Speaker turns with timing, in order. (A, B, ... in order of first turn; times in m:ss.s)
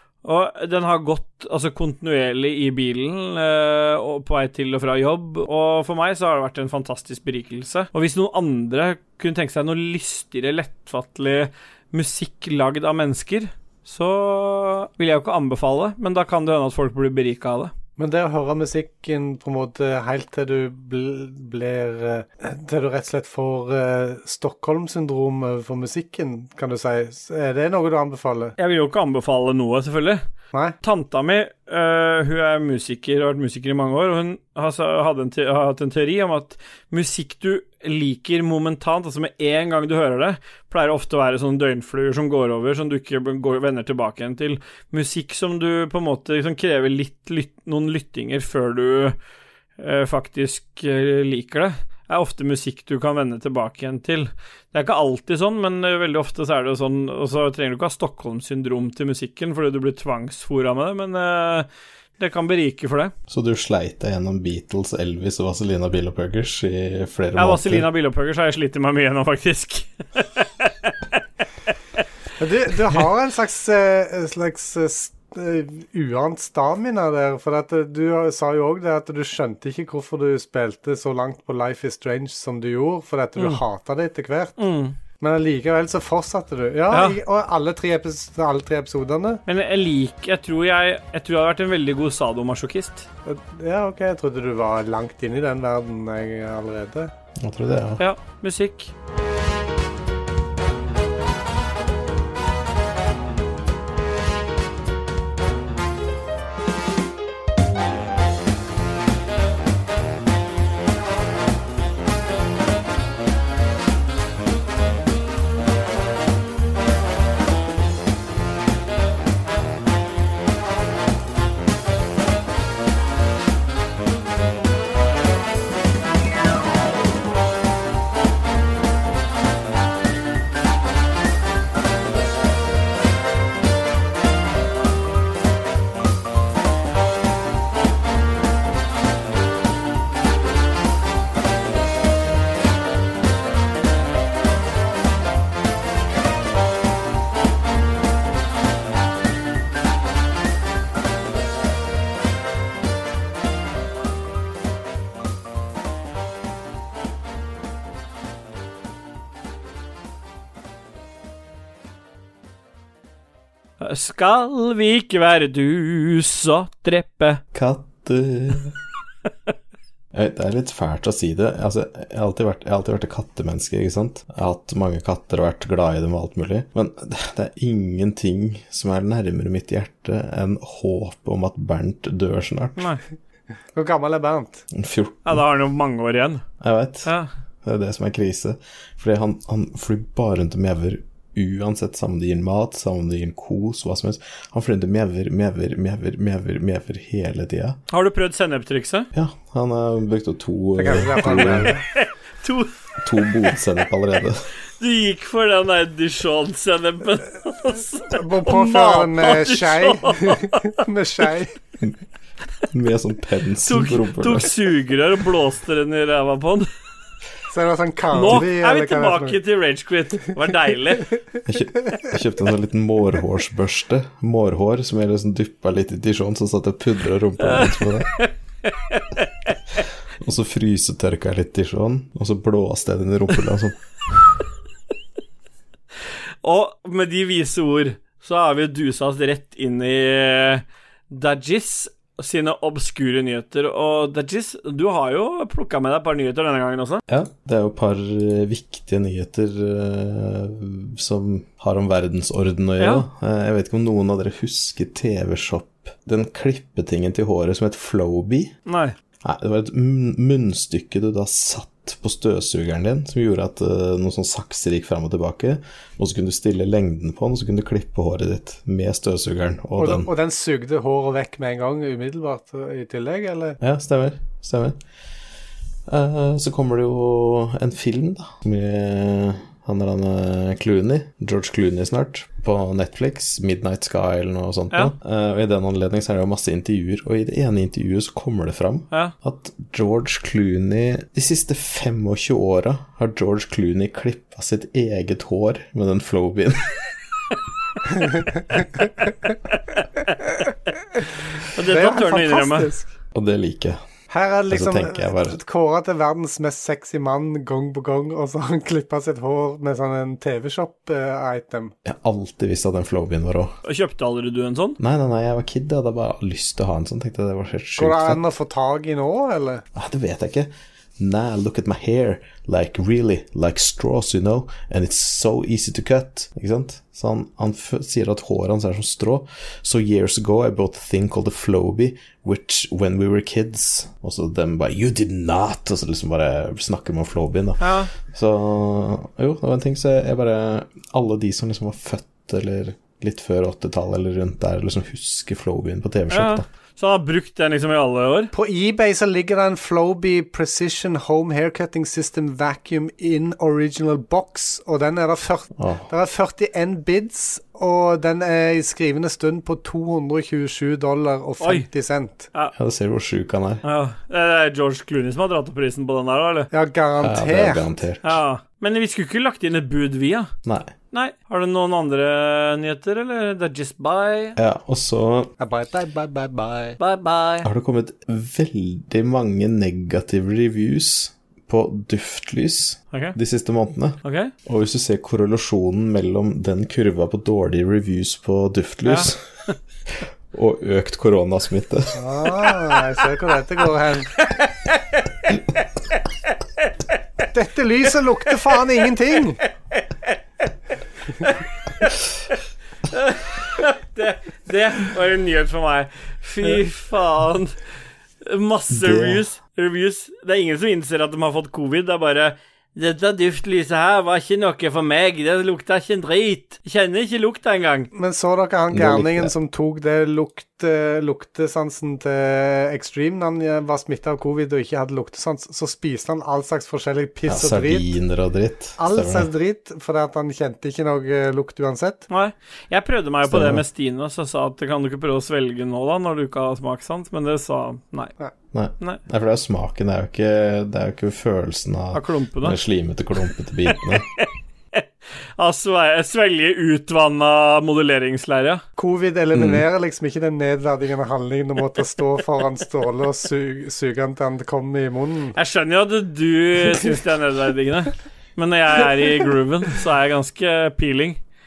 0:00.2-0:17.7 A
0:18.0-0:28.5 B
0:28.6-0:30.2 A
0:30.8-0:49.2 A
0:49.8-1:01.7 A
1:02.2-1:03.1 A
1:03.3-1:07.9 C
1:07.4-1:09.9 A
1:10.4-1:10.9 A
1:12.4-1:24.6 B
1:24.6-1:25.0 A
1:25.2-1:29.4 B
1:26.9-1:27.2 A
1:29.5-1:33.1 A
1:33.2-1:37.1 B
1:37.4-1:38.0 C
1:38.0-1:38.9 A
2:43.8-2:47.4 A
2:47.5-2:48.7 C
2:50.1-3:02.9 C
3:03.7-3:04.6 B
3:04.7-3:05.4 C
3:05.2-3:06.4 A
3:06.6-3:07.1 C
3:07.6-3:17.8 C
3:17.9-3:19.1 A
3:19.1-3:21.7 C
3:20.8-3:21.8 B
3:21.6-3:23.5 A
3:23.0-3:24.5 C
3:24.8-3:30.8 A
3:28.1-3:31.5 B
3:32.7-3:34.6 C
3:33.6-3:36.7 A
3:37.5-3:39.4 B
3:38.1-3:41.1 A
3:41.4-3:48.2 C
3:47.4-3:49.5 A
3:50.2-3:53.8 C
3:56.4-4:07.0 A
4:07.1-4:18.5 C
4:12.8-4:13.0 A
4:18.7-4:18.9 A
4:19.2-4:30.1 C
4:29.8-4:33.6 B
4:33.6-4:34.8 C
4:35.9-4:56.8 C
5:01.5-5:02.7 A
5:01.6-5:02.9 B
5:03.1-5:03.8 C
5:04.1-5:11.7 B
5:04.5-5:05.4 C
5:11.8-5:13.5 C
5:13.6-5:14.8 A
5:14.8-5:18.2 C
5:17.8-5:19.6 B
5:19.7-5:46.4 C
5:37.6-5:37.9 A
5:46.1-5:48.3 A
5:48.3-6:02.3 B
5:55.6-5:55.9 C
6:01.4-6:01.7 A
6:02.5-6:03.6 C
6:03.6-6:06.5 A
6:06.5-6:07.6 B
6:07.0-6:08.2 C
6:08.0-6:10.3 A
6:10.4-6:10.7 C
6:10.9-6:14.4 A
6:14.4-6:15.3 C
6:15.4-6:16.8 B
6:16.8-6:17.5 A
6:17.4-6:29.2 C
6:24.0-6:24.3 A
6:28.8-6:29.1 A
6:30.3-6:32.0 C
6:31.9-6:34.2 B
6:34.3-6:35.3 A
6:37.3-6:39.4 B
6:39.8-6:40.1 A
6:41.2-6:42.0 A
6:42.9-6:47.5 A
6:48.2-6:57.9 A
6:48.7-6:49.2 C
6:57.9-7:07.9 B
6:58.7-6:59.3 C
7:07.2-7:09.3 C
7:08.8-7:12.1 B
7:12.1-7:18.1 A
7:13.2-7:13.6 C
7:18.5-7:24.0 C
7:21.9-7:22.6 A
7:25.4-7:28.6 A
7:28.8-7:35.4 B
7:29.3-7:29.6 C
7:35.3-7:41.2 A